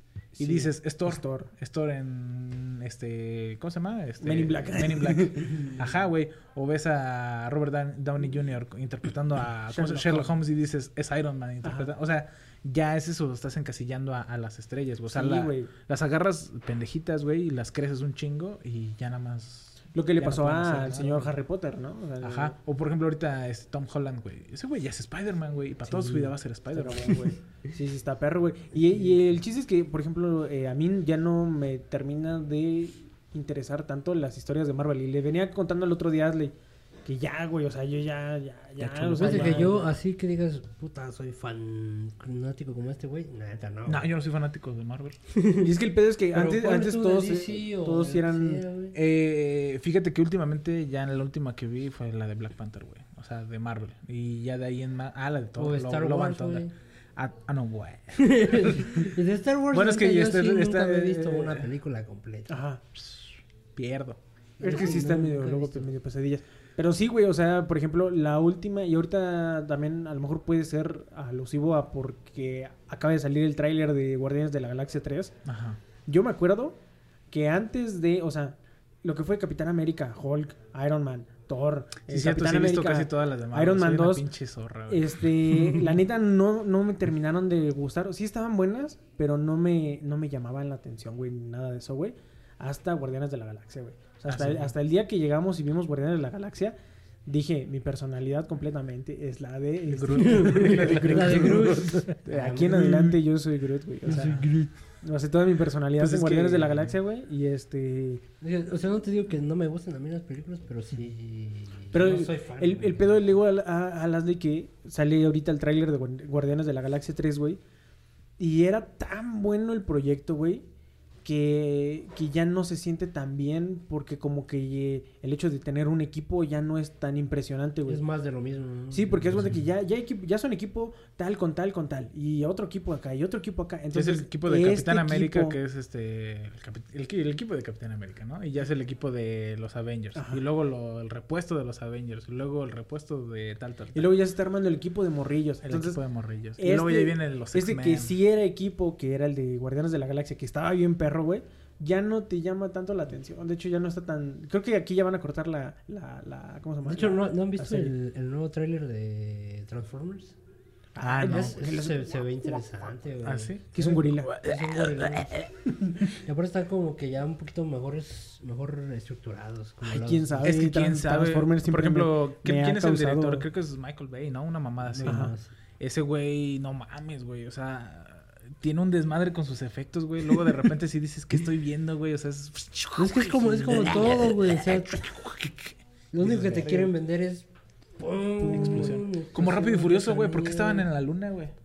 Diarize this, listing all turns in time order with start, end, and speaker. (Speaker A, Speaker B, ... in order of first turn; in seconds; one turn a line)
Speaker A: 0.4-1.5
Speaker B: 0.4-21.4
Speaker A: 4.2-5.8
Speaker A: 9.7-10.3
Speaker A: 11.6-11.9
Speaker A: 15.1-15.7
Speaker A: 19.9-22.6
Speaker B: 22.2-27.3
Speaker A: 25.9-36.5
Speaker A: 37.1-39.9
Speaker B: 38.8-39.8
Speaker C: 39.2-44.1
Speaker B: 43.9-45.2
Speaker C: 45.3-45.7
Speaker A: 45.6-48.6
Speaker C: 46.3-49.0
Speaker B: 48.9-59.1
Speaker C: 55.6-56.7
Speaker C: 58.2-62.6
Speaker B: 59.7-61.7
Speaker A: 62.5-62.8
Speaker B: 63.8-64.2
Speaker C: 64.6-65.9
Speaker A: 64.6-75.3
Speaker B: 75.5-75.8
Speaker A: 76.1-76.8
Speaker A: 77.3-84.3
Speaker B: 82.1-85.3
Speaker A: 84.9-96.8
Speaker B: 94.3-94.7
Speaker A: 97.3-104.4
Speaker B: 99.9-102.2
Speaker C: 100.2-103.1
Speaker C: 104.1-104.7
Speaker B: 104.1-104.5
Speaker A: 105.0-108.2
Speaker B: 106.0-107.0
Speaker C: 108.4-113.2
Speaker A: 111.9-117.6
Speaker A: 118.4-120.6
Speaker A: 121.2-128.0
Speaker C: 127.9-129.6
Speaker A: 128.9-135.6
Speaker B: 133.9-144.2
Speaker A: 140.2-140.4
Speaker A: 143.9-146.0
Speaker B: 145.6-148.2
Speaker A: 146.6-157.9
Speaker C: 156.9-160.4
Speaker A: 160.9-162.7
Speaker B: 161.0-161.6
Speaker C: 161.3-163.8
Speaker B: 163.2-165.5
Speaker A: 163.7-164.3
Speaker C: 164.4-165.3
Speaker C: 166.2-170.6
Speaker A: 169.8-173.5
Speaker B: 170.4-186.9
Speaker C: 174.9-175.5
Speaker A: 175.1-175.3
Speaker C: 183.0-185.0
Speaker C: 186.1-187.5
Speaker C: 188.0-190.9
Speaker B: 188.4-191.6
Speaker A: 188.5-189.0